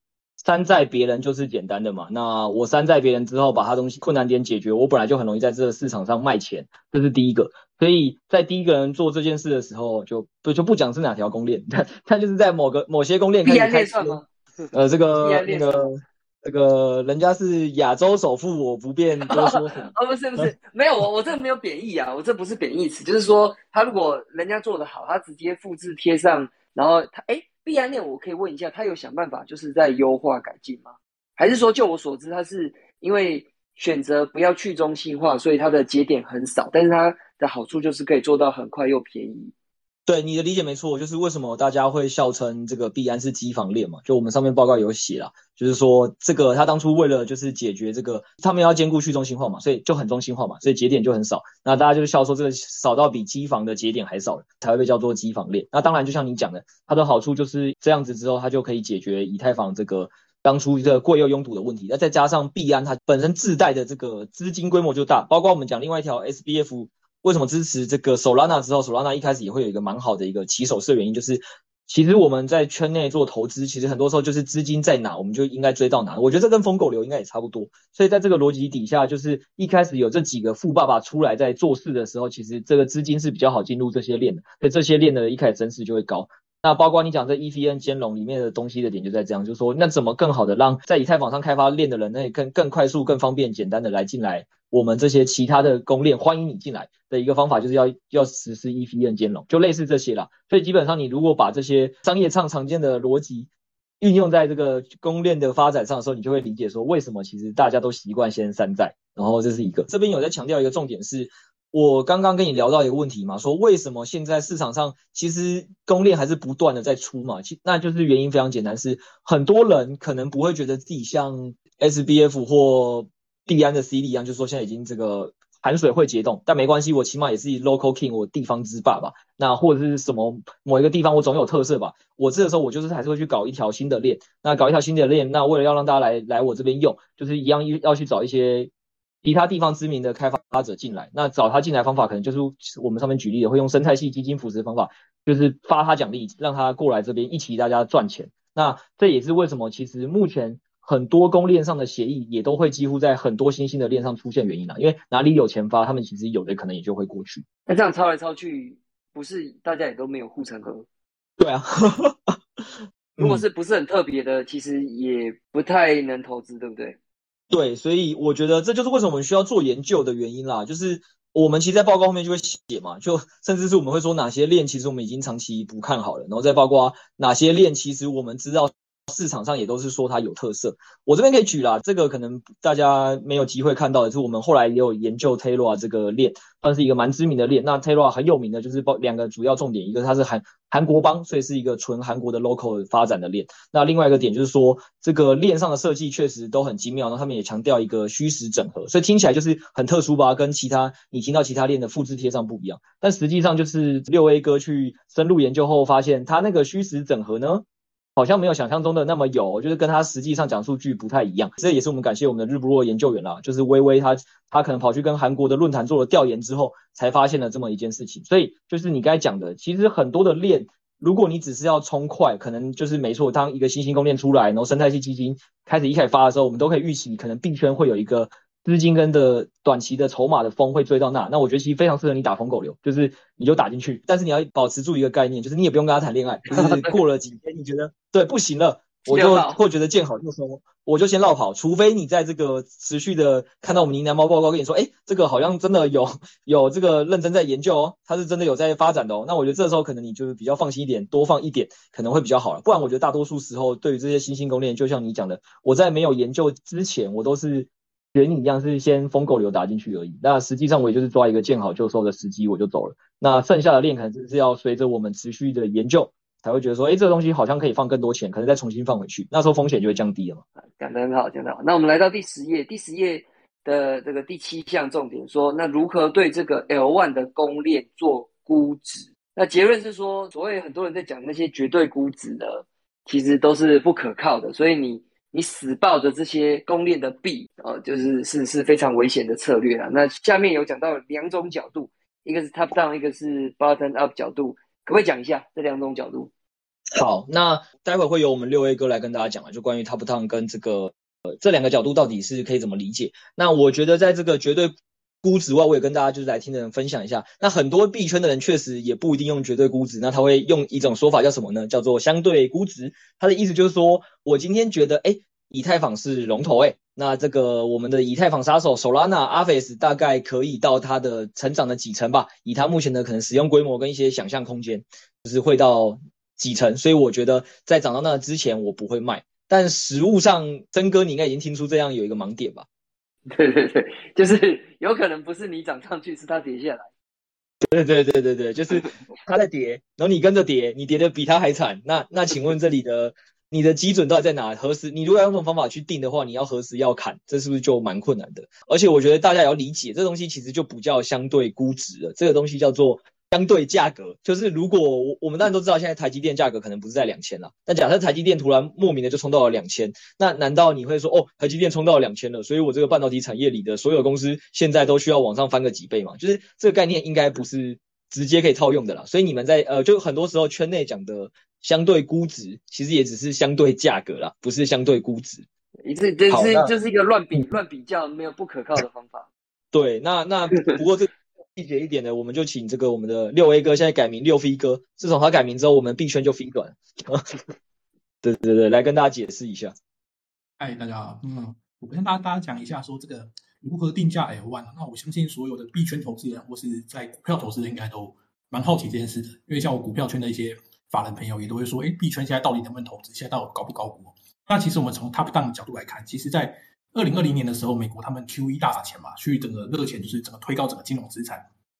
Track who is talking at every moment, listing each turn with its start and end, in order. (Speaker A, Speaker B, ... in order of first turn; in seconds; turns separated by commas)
Speaker A: 0.4-14.2, Speaker B: 13.4-15.9, Speaker A: 14.7-20.5, Speaker B: 19.3-39.5, Speaker A: 40.1-103.5, Speaker A: 104.0-138.7, Speaker A: 139.2-157.4, Speaker B: 157.7-160.9, Speaker A: 161.4-162.4, Speaker A: 163.2-163.4, Speaker B: 163.2-167.0, Speaker A: 167.5-207.6, Speaker A: 208.2-270.4, Speaker B: 236.5-236.9, Speaker B: 239.1-239.6, Speaker B: 270.8-296.3, Speaker A: 296.9-332.6, Speaker B: 333.3-336.9, Speaker A: 337.6-375.4, Speaker B: 375.9-379.3, Speaker A: 376.3-376.7, Speaker A: 379.7-387.4, Speaker A: 388.2-389.7, Speaker C: 390.6-411.4